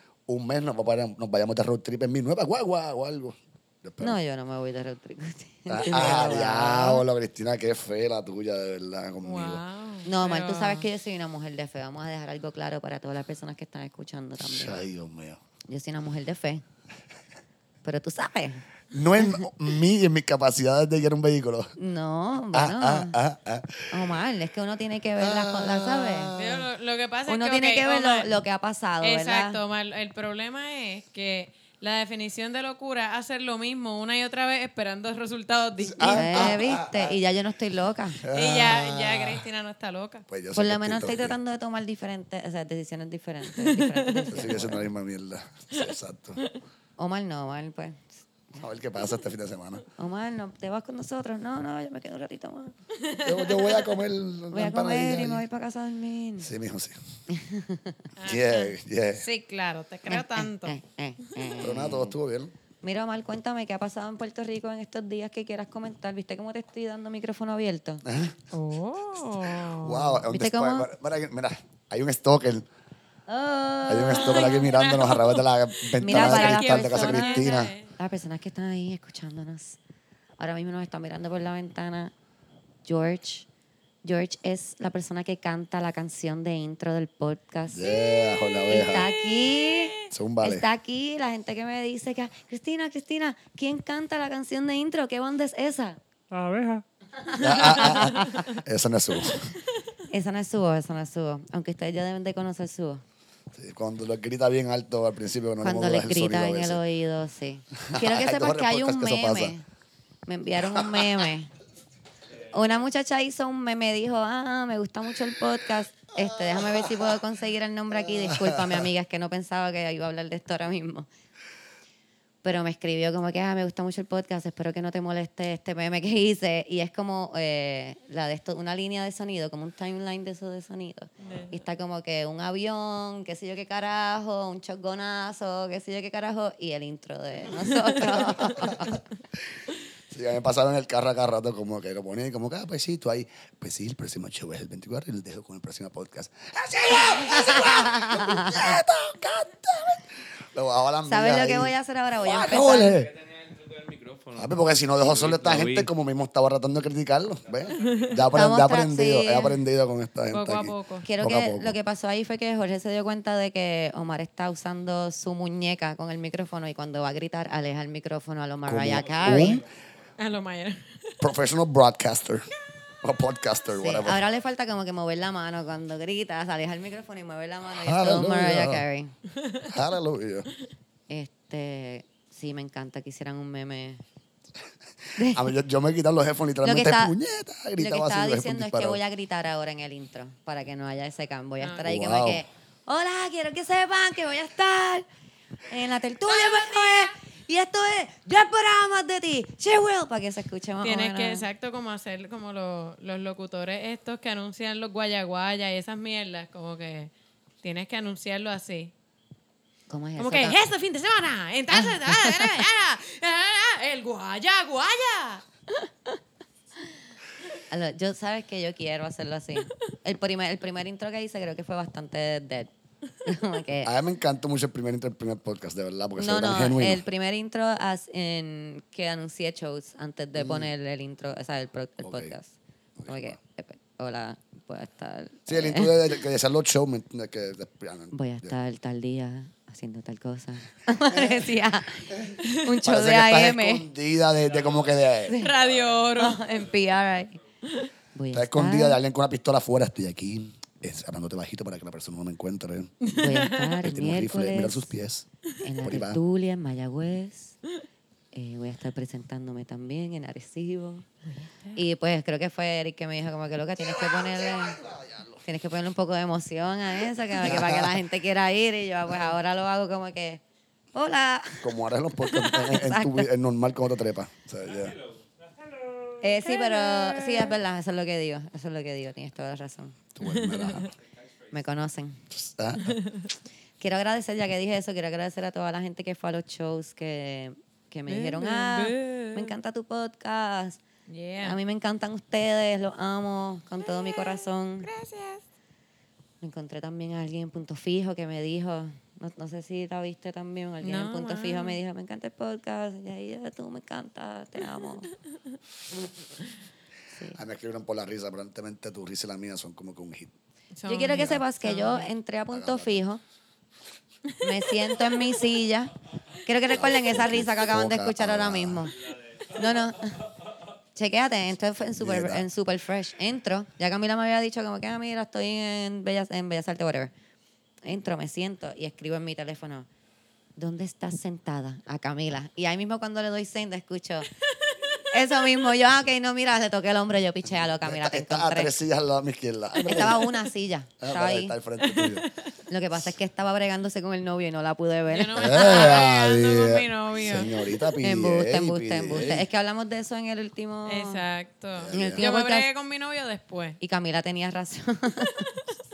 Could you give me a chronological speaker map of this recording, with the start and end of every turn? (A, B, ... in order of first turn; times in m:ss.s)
0:00.3-0:04.2 A
0:04.0-0:07.0 B
0:05.7-0:09.6 A
0:09.2-0:10.8 C
0:10.0-0:14.8 B
0:14.4-0:15.4 A
0:15.7-0:16.6 B
0:17.8-0:18.6 B
0:18.9-0:21.7 A
0:21.8-0:23.2 B
0:22.5-0:24.1 A
0:23.9-0:26.3 B
0:25.2-0:26.7 A
0:26.4-0:28.3 C
0:27.3-0:29.6 B
0:29.0-0:36.6 C
0:35.8-0:37.2 A
0:36.0-0:38.2 B
0:38.2-0:39.4 A
0:38.3-0:40.2 C
0:40.3-0:41.4 A
0:40.5-0:44.8 B
0:43.5-0:44.5 C
0:44.3-0:46.4 A
0:45.7-0:46.6 C
0:47.0-0:48.2 B
0:48.5-0:49.8 A
0:50.0-0:52.8 B
0:53.0-0:53.9 C
0:53.2-0:55.4 A
0:54.5-0:56.5 B
0:56.4-0:56.9 A
0:57.3-0:58.0 B
0:58.2-1:00.8 C
0:58.2-0:59.2 A
1:00.1-1:02.1 B
1:01.6-1:02.5 A
1:02.8-1:08.0 B
1:08.0-1:08.4 A
1:08.5-1:10.2 C
1:09.5-1:12.6 A
1:10.3-1:10.9 B
1:13.3-1:14.7 B
1:13.9-1:17.7 A
1:14.1-1:15.4 C
1:16.0-1:17.9 C
1:16.0-1:19.8 B
1:20.4-1:22.1 B
1:22.8-1:23.5 B
1:24.0-1:27.9 B
1:27.7-1:29.1 A
1:27.9-1:30.1 C
1:28.7-1:36.0 B
1:30.1-1:30.6 A
1:37.2-1:38.4 B
1:37.4-1:39.5 A
1:40.1-1:43.0 B
1:43.5-1:46.8 A
1:45.6-1:49.6 B
1:47.8-1:49.5 A
1:50.2-1:51.5 B
1:50.7-1:51.1 A
1:52.5-2:01.1 B
1:58.1-1:58.8 A
2:02.4-2:19.0 B
2:11.2-2:11.5 C
2:18.3-2:18.8 A
2:20.1-2:33.1 A
2:27.1-2:28.8 B
2:31.0-2:33.0 B
2:32.5-2:35.9 D
2:34.4-2:41.8 A
2:37.8-2:38.1 C
2:38.3-2:39.6 B
2:40.3-2:41.0 C
2:41.0-2:49.6 B
2:48.6-2:49.6 A
2:50.2-2:51.2 C
2:51.2-2:52.5 A
2:53.0-2:54.2 A
2:53.8-2:59.1 B
2:57.7-2:58.8 A
2:59.4-2:59.7 C
2:59.7-3:00.5 A
3:01.1-3:04.0 B
3:05.2-3:05.5 B
3:05.2-3:09.0 A
3:06.6-3:07.1 B
3:07.8-3:15.0 B
3:11.6-3:11.8 C
3:11.8-3:12.4 A
3:15.7-3:21.4 B
3:16.3-3:17.1 C
3:20.8-3:27.1 C
3:27.6-3:28.9 C
3:29.9-3:30.6 B
3:30.2-3:35.4 C
3:31.7-3:32.6 B
3:37.7-3:42.7 B
3:43.2-3:43.9 B
3:43.8-3:47.0 A
3:46.2-3:56.2 B
3:50.3-3:50.7 A
3:52.0-3:52.3 A
3:53.0-3:53.4 A
3:55.5-3:58.5 A
3:58.1-4:03.8 B
4:02.1-4:05.4 A
4:02.4-4:02.7 C
4:05.3-4:05.6 B
4:05.3-4:06.4 C
4:06.1-4:07.4 B
4:08.1-4:09.0 B
4:08.3-4:12.9 A
4:13.0-4:13.8 C
4:13.1-4:14.9 B
4:13.8-4:15.2 A
4:15.6-4:17.6 B
4:15.8-4:16.2 A
4:18.3-4:21.1 B
4:21.4-4:21.8 C
4:21.7-4:24.8 B
4:23.8-4:25.4 A
4:25.4-4:30.4 B
4:27.3-4:28.0 A
4:30.9-4:33.3 B
4:31.6-4:35.0 A
4:36.2-4:40.0 B
4:36.4-4:37.5 C
4:40.1-4:40.9 A
4:40.3-4:40.9 C
4:41.5-4:42.2 B
4:42.3-4:43.0 A
4:42.8-4:43.3 C
4:43.8-4:50.8 B
4:48.1-4:49.5 C
4:51.1-4:51.6 C
4:51.4-4:54.9 B
4:53.8-4:55.4 C
4:56.4-5:05.1 B
5:00.8-5:01.8 C
5:07.3-5:10.3 A
5:10.7-5:12.1 C
5:10.9-5:13.2 B
5:12.5-5:13.0 A
5:14.4-5:15.9 B
5:16.4-5:19.0 B
5:16.7-5:18.9 A
5:19.5-5:20.3 B
5:20.9-5:27.1 B
5:22.0-5:22.4 A
5:27.8-5:29.9 B
5:30.6-5:34.3 B
5:35.1-5:38.7 B
5:37.8-5:40.2 A
5:39.8-5:41.5 B
5:41.0-5:42.2 A
5:41.8-5:42.3 C
5:42.7-5:46.0 B
5:45.1-5:47.6 C
5:45.3-5:49.4 A
5:48.0-5:51.2 B
5:50.8-5:53.8 C
5:51.8-5:52.2 A
5:51.9-5:52.7 B
5:53.8-5:55.5 B